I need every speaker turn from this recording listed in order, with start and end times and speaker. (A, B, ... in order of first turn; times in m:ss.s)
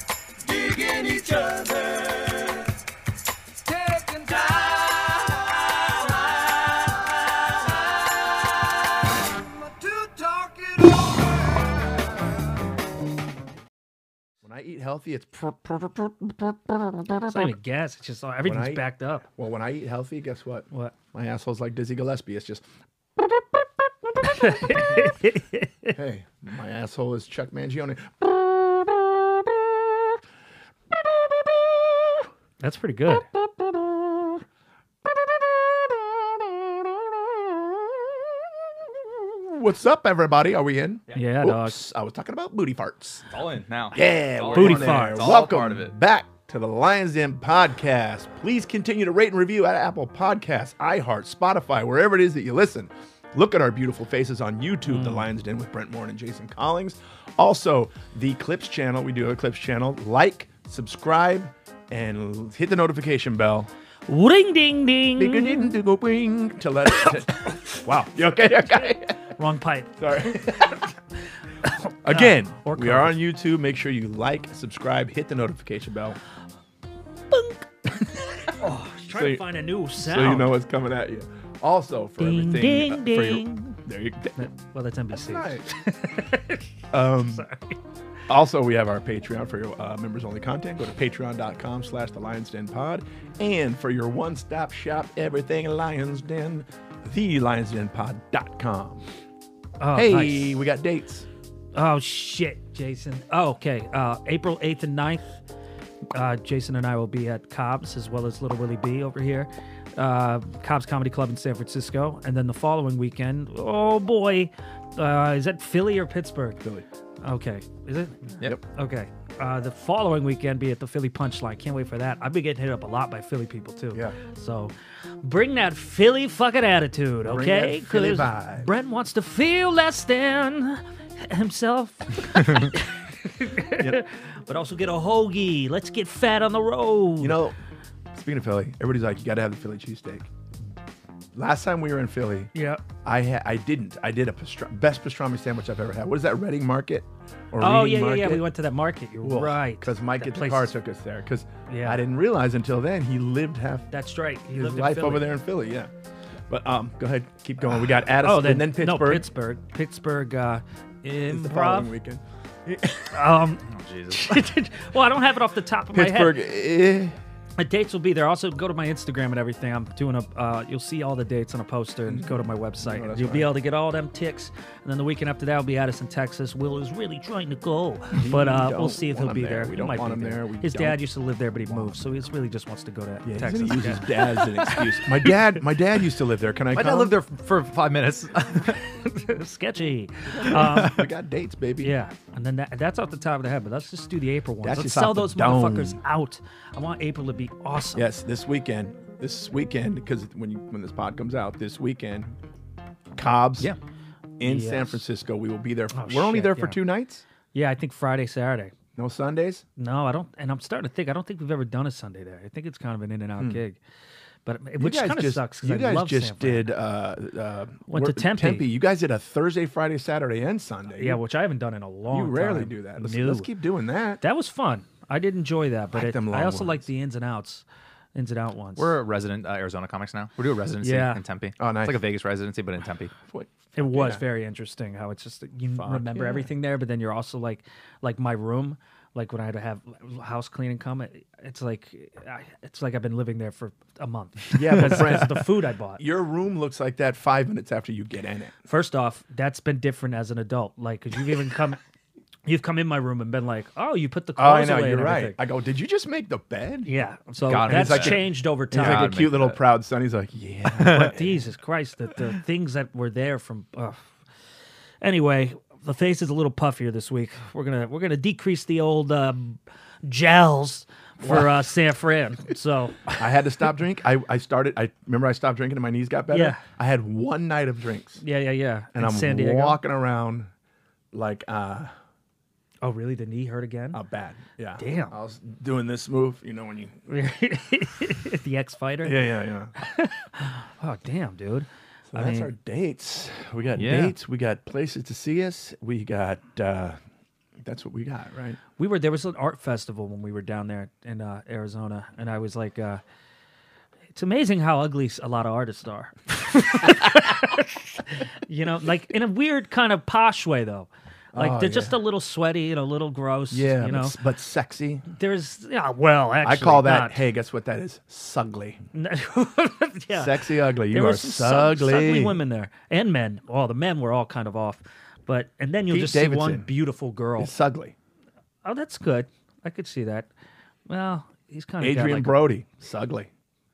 0:00.4-0:02.8 A
0:03.5-0:12.4 A
0:14.4-0:17.5 B
0:17.2-0:19.2 C
0:18.4-0:22.6 B
0:23.2-0:25.1 B
0:24.3-0:26.0 C
0:25.9-0:30.2 B
0:30.9-0:32.2 B
0:32.6-0:33.3 C
0:33.3-0:34.3 B
0:35.2-0:43.3 B
0:41.1-0:41.8 C
0:43.3-0:45.9 D
0:43.9-1:03.7 B
0:44.5-0:45.4 C
0:54.9-0:55.3 C
1:04.1-1:05.8 C
1:05.2-1:09.3 B
1:07.2-1:07.8 C
1:09.4-1:10.9 C
1:10.0-1:10.7 B
1:11.6-1:13.2 C
1:12.0-1:16.2 B
1:17.3-1:20.6 C
1:19.1-1:19.4 B
1:20.0-1:24.4 B
1:22.2-1:23.8 C
1:24.4-1:27.8 C
1:25.1-1:25.7 B
1:26.9-1:27.5 B
1:28.3-1:39.1 B
1:39.8-1:40.6 C
1:39.9-1:41.3 B
1:41.7-1:45.3 C
1:46.1-1:56.6 C
1:57.2-2:17.4 C
2:07.2-2:08.7 B
2:17.2-2:17.6 B
2:18.1-2:20.3 B
2:21.4-2:22.5 B
2:22.5-2:22.8 C
2:23.0-2:28.4 B
2:27.6-2:30.7 C
2:29.2-2:33.9 B
2:31.7-2:32.0 C
2:33.9-2:35.3 C
2:34.5-2:35.9 B
2:36.5-2:39.3 B
2:38.2-2:41.9 C
2:41.3-2:43.2 B
2:43.1-2:46.4 C
2:43.6-2:44.5 D
2:45.9-2:47.2 B
2:47.6-3:05.6 C
2:52.1-2:53.5 B
2:58.1-3:01.0 B
3:01.7-3:02.0 B
3:03.2-3:07.2 B
3:06.7-3:08.8 D
3:08.7-3:11.0 C
3:10.3-3:11.9 B
3:10.6-3:10.9 D
3:11.8-3:18.1 C
3:14.6-3:16.0 B
3:18.0-3:22.4 B
3:23.2-3:23.7 B
3:24.4-3:27.2 B
3:24.4-3:25.0 C
3:25.9-3:26.8 C
3:27.5-3:28.7 C
3:29.0-3:29.6 B
3:29.8-3:33.8 C
3:34.4-3:36.7 C
3:34.8-3:41.2 B
3:37.9-3:38.6 C
3:41.0-3:43.5 C
3:42.1-3:44.2 B
3:44.2-3:48.9 C
3:45.9-3:46.9 B
3:48.8-3:53.1 D
3:50.8-3:51.2 C
3:51.6-3:52.0 B
3:53.3-3:54.2 B
3:53.8-4:06.0 C
3:55.7-3:56.5 B
4:04.5-4:08.6 B
4:08.7-4:11.8 C
4:12.4-4:15.4 C
4:14.4-4:16.9 B
4:16.9-4:19.1 C
4:17.5-4:19.6 D
4:17.6-4:21.4 B
4:20.7-4:21.1 D
4:20.8-4:24.0 C
4:25.0-4:33.3 C
4:31.2-4:31.6 B
4:33.2-4:38.2 B
4:36.3-4:36.6 C
4:38.2-4:39.8 C
4:38.9-4:40.5 B
4:41.1-4:41.9 B
4:42.8-4:44.0 C
4:43.9-4:47.0 B
4:44.8-4:45.2 C
4:47.1-4:49.3 C
4:49.0-4:49.7 B
4:49.8-4:52.5 C
4:52.1-4:57.0 B
4:53.8-4:54.2 D
4:57.6-4:58.6 B
4:58.8-5:03.0 C
5:04.1-5:14.2 C
5:11.3-5:12.0 B
5:13.5-5:15.0 B
5:15.1-5:17.2 C
5:16.4-5:18.8 B
5:18.9-5:27.5 C
5:20.1-5:22.4 B
5:25.9-5:26.7 B
5:27.4-5:28.0 B
5:28.6-5:30.3 C
5:30.9-5:32.4 C
5:31.8-5:33.3 B